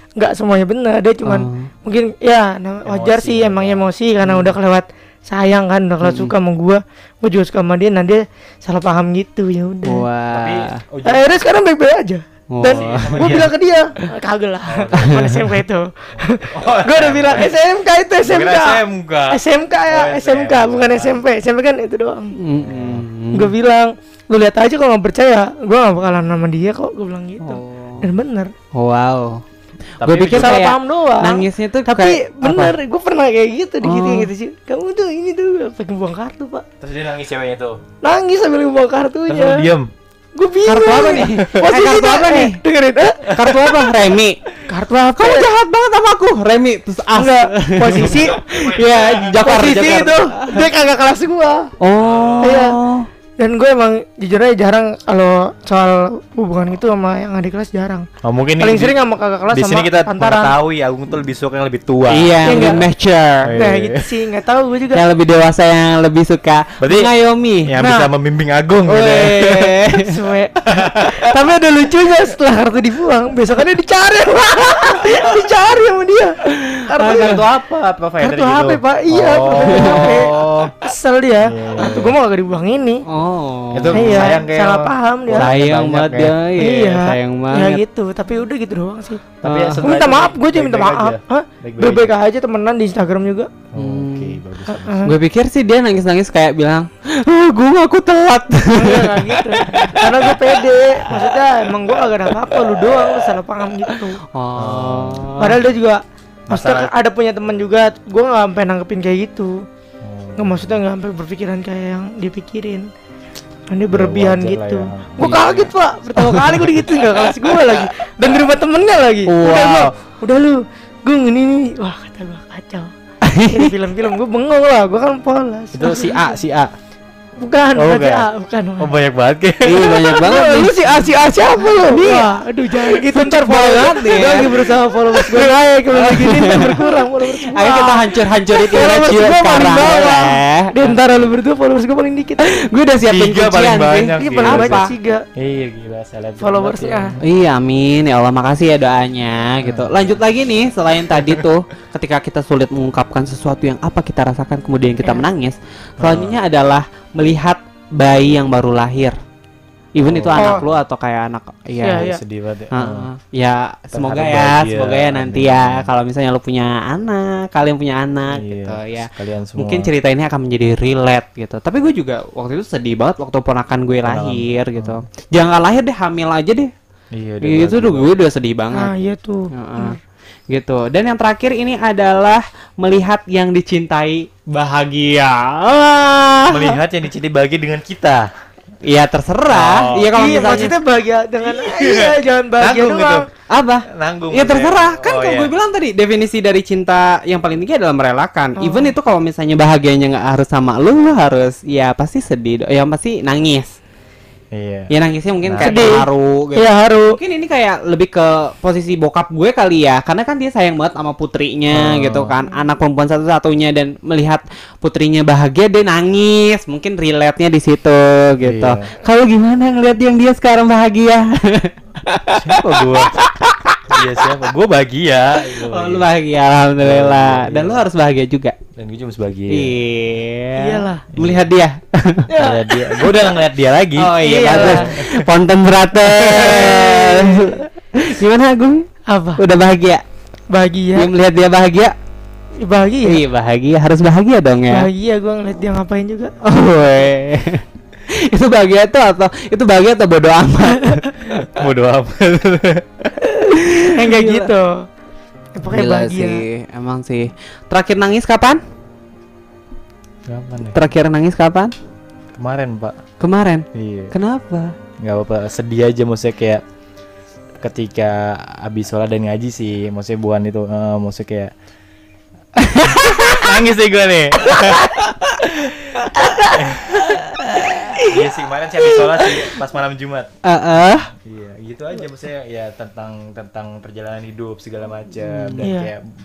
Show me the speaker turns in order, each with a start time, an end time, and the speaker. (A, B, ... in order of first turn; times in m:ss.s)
0:00.2-0:10.0 A
0:01.2-0:01.7 B
0:02.8-0:03.8 C
0:04.2-0:04.5 B
0:06.0-0:06.3 B
0:09.8-0:10.8 B
0:10.3-0:11.3 C
0:11.0-0:22.4 A
0:12.5-0:13.3 B
0:12.7-0:13.5 C
0:14.6-0:15.5 C
0:14.9-0:15.2 B
0:16.1-0:17.5 C
0:18.2-0:21.2 C
0:22.4-0:23.5 B
0:22.6-0:23.0 C
0:23.3-0:28.5 A
0:27.4-0:28.1 B
0:28.7-0:29.4 B
0:30.0-0:30.6 C
0:30.0-0:32.8 B
0:30.3-0:36.6 A
0:33.8-0:34.3 B
0:36.8-0:37.8 C
0:38.0-0:39.7 A
0:39.3-0:39.9 C
0:40.3-0:43.9 A
0:40.6-0:42.6 B
0:41.2-0:41.8 C
0:43.3-0:44.4 B
0:44.7-0:45.5 A
0:45.2-0:50.6 B
0:47.1-0:48.4 A
0:48.5-0:50.3 C
0:49.1-0:51.7 A
0:51.8-0:53.1 B
0:52.0-0:52.6 C
0:52.4-0:52.8 A
0:53.4-0:58.1 A
0:58.2-0:58.9 C
0:58.6-1:00.5 A
0:59.5-1:02.8 C
1:02.1-1:03.5 B
1:02.5-1:02.8 A
1:03.4-1:04.1 C
1:03.6-1:05.0 A
1:04.9-1:07.7 B
1:06.8-1:07.1 C
1:07.6-1:09.8 C
1:07.8-1:08.1 A
1:08.9-1:10.1 B
1:10.0-1:17.4 A
1:10.6-1:11.3 C
1:17.0-1:20.8 C
1:17.0-1:17.3 B
1:18.2-1:23.0 A
1:19.7-1:20.2 B
1:21.4-1:22.2 C
1:23.1-1:24.3 B
1:23.7-1:26.3 C
1:24.0-1:25.5 A
1:25.3-1:27.8 B
1:26.6-1:33.5 A
1:29.4-1:32.1 C
1:29.4-1:29.8 B
1:33.7-1:35.1 C
1:33.8-1:34.4 B
1:34.7-1:35.1 A
1:35.0-1:40.4 B
1:38.7-1:44.2 A
1:43.9-1:45.6 B
1:44.6-1:45.3 C
1:45.4-1:49.5 A
1:46.5-1:46.9 C
1:50.0-1:50.8 C
1:50.4-1:52.9 A
1:53.7-2:02.9 A
1:53.9-1:55.6 C
1:55.2-1:55.7 B
1:56.2-1:56.6 B
1:59.3-1:59.9 B
2:03.2-2:03.7 B
2:03.5-2:06.3 A
2:05.7-2:06.7 C
2:07.4-2:08.9 A
2:07.7-2:08.3 C
2:08.8-2:10.3 C
2:09.6-2:10.9 B
2:10.0-2:22.6 A
2:11.8-2:12.3 B
2:13.1-2:14.5 B
2:15.2-2:15.5 C
2:15.9-2:21.0 B
2:22.4-2:24.9 B
2:23.0-2:27.2 C
2:24.2-2:25.2 A
2:26.4-2:27.2 A
2:27.2-2:39.2 B
2:29.6-2:30.1 C
2:36.0-2:36.4 C
2:39.9-2:42.1 B
2:40.0-2:40.6 C
2:40.4-2:40.6 A
2:41.8-2:42.2 A
2:42.0-2:43.1 C
2:42.7-2:56.7 B
2:43.9-2:45.9 C
2:48.3-2:49.9 C
2:54.0-2:55.0 C
2:57.1-2:58.2 C
2:57.4-2:58.9 B
2:58.7-3:00.0 A
2:59.5-3:00.0 B
3:00.5-3:06.8 B
3:06.5-3:08.3 C
3:08.8-3:10.8 B
3:09.5-3:10.7 C
3:10.1-3:13.3 A
3:11.4-3:13.3 C
3:13.5-3:23.7 B
3:13.9-3:15.5 C
3:18.6-3:18.9 A
3:24.5-3:24.9 C
3:24.9-3:44.2 B
3:25.4-3:25.9 C
3:25.6-3:27.2 A
3:31.7-3:32.4 C
3:38.4-3:38.9 C
3:42.3-3:43.2 C
3:43.9-3:46.0 C
3:45.5-3:48.6 B
3:46.8-3:47.8 C
3:48.8-3:49.7 C
3:49.5-3:52.3 B
3:50.6-3:51.0 A
3:51.2-3:51.4 C
3:52.3-3:53.2 A
3:52.4-3:55.3 C
3:54.0-4:00.0 B
3:54.2-3:54.9 A
3:56.0-3:56.8 C
3:56.6-3:57.6 A
3:59.1-3:59.4 A
4:00.5-4:01.1 A
4:00.9-4:01.9 B
4:02.6-4:03.2 A
4:03.0-4:04.9 B
4:04.7-4:06.3 A
4:06.4-4:11.1 B
4:11.3-4:13.2 C
4:13.5-4:14.5 B
4:13.9-4:14.8 A
4:15.5-4:16.4 A
4:15.6-4:18.6 B
4:20.3-4:20.8 C
4:20.7-4:21.7 B
4:22.3-4:23.0 C
4:23.2-4:24.7 B
4:23.7-4:24.1 C
4:25.0-4:26.6 C
4:27.6-4:31.5 C
4:32.6-4:33.5 B
4:32.9-4:37.2 C
4:34.6-4:35.4 B
4:36.0-4:36.5 B
4:37.2-4:38.2 B
4:38.0-4:40.3 C
4:38.8-4:39.5 B
4:40.4-4:41.1 B
4:41.1-4:46.0 C
4:45.2-4:45.7 B
4:45.6-4:45.9 A